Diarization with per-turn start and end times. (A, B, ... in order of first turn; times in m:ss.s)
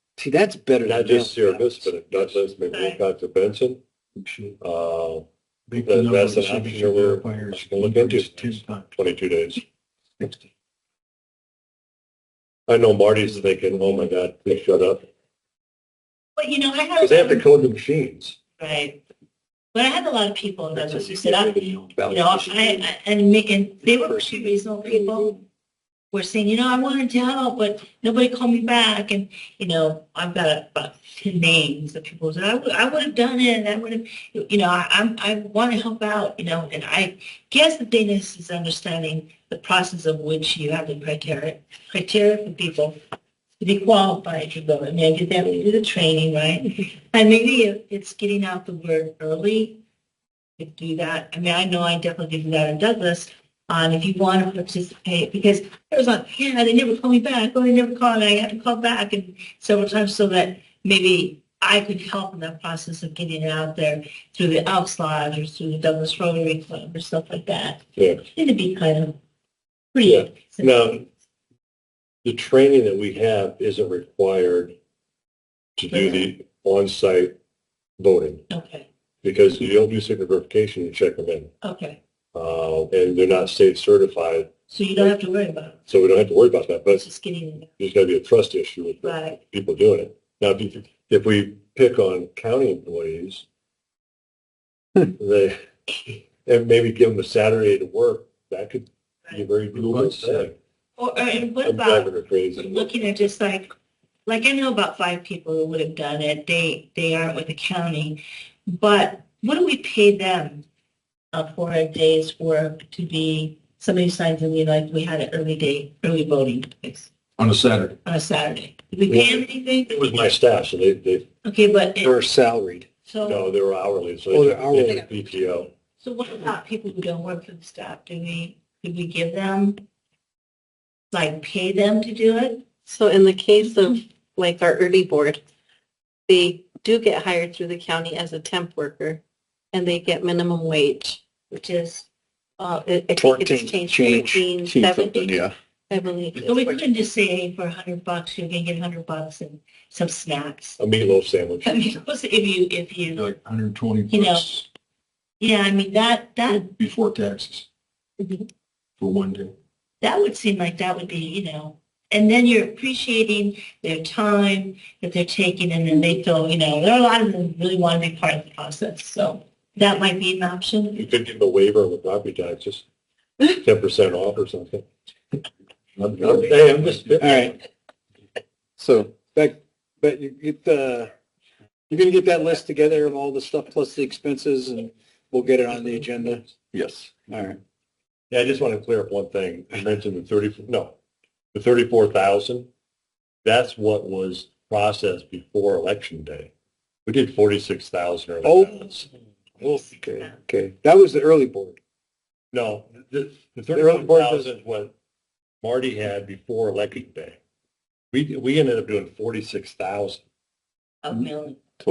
0:00.2-0:01.9 A
0:00.8-0:03.8 B
0:02.7-0:03.0 C
0:04.6-0:05.2 B
0:05.7-0:08.9 D
0:05.8-0:09.6 B
0:12.7-0:15.0 B
0:16.4-0:17.5 C
0:17.0-0:18.4 B
0:18.6-0:19.0 C
0:19.7-0:25.4 C
0:21.7-0:22.8 A
0:24.1-0:24.5 A
0:26.1-0:43.0 C
0:43.6-0:49.8 C
0:50.6-1:09.2 C
1:08.0-1:08.2 B
1:09.9-1:11.1 C
1:10.0-1:11.0 B
1:12.2-1:14.8 B
1:15.8-1:17.3 B
1:15.9-1:16.3 C
1:18.0-1:18.4 B
1:18.5-1:18.9 C
1:19.2-1:21.5 B
1:21.6-1:22.0 C
1:22.3-1:25.1 B
1:24.7-1:25.8 C
1:25.9-1:27.0 B
1:26.9-1:27.7 C
1:27.8-1:33.4 B
1:29.0-1:29.4 C
1:35.1-1:40.5 B
1:39.7-1:40.5 D
1:41.0-1:43.7 C
1:41.6-1:42.9 B
1:44.2-1:50.6 C
1:51.3-1:57.1 C
1:57.4-1:57.9 D
1:58.0-1:59.9 C
1:59.1-2:01.2 B
2:01.4-2:02.2 C
2:02.0-2:02.9 A
2:03.0-2:03.5 C
2:03.2-2:05.7 B
2:04.3-2:05.1 A
2:06.0-2:09.8 C
2:11.1-2:12.6 C
2:12.8-2:15.4 E
2:16.3-2:19.2 E
2:19.7-2:21.2 E
2:21.5-2:22.1 C
2:22.6-2:26.5 E
2:23.2-2:24.9 A
2:24.8-2:25.2 D
2:26.3-2:30.8 C
2:30.8-2:31.8 B
2:31.6-2:33.3 C
2:33.1-2:34.6 D
2:34.1-2:34.6 C
2:35.4-2:36.7 C
2:36.7-2:37.6 D
2:39.0-2:39.5 D
2:40.0-2:51.0 C
2:51.0-2:52.8 B
2:53.5-2:54.9 B
2:56.0-2:57.6 B
2:57.2-2:57.6 A
2:59.3-3:01.1 A
3:01.9-3:06.5 A
3:07.3-3:07.6 A
3:08.3-3:11.0 B
3:11.5-3:12.7 B
3:13.4-3:16.5 B
3:17.0-3:19.1 B
3:18.4-3:19.0 A
3:19.6-3:21.8 A
3:22.5-3:24.9 B
3:23.7-3:24.5 A
3:25.6-3:27.4 B
3:28.1-3:30.2 B
3:31.0-3:31.6 C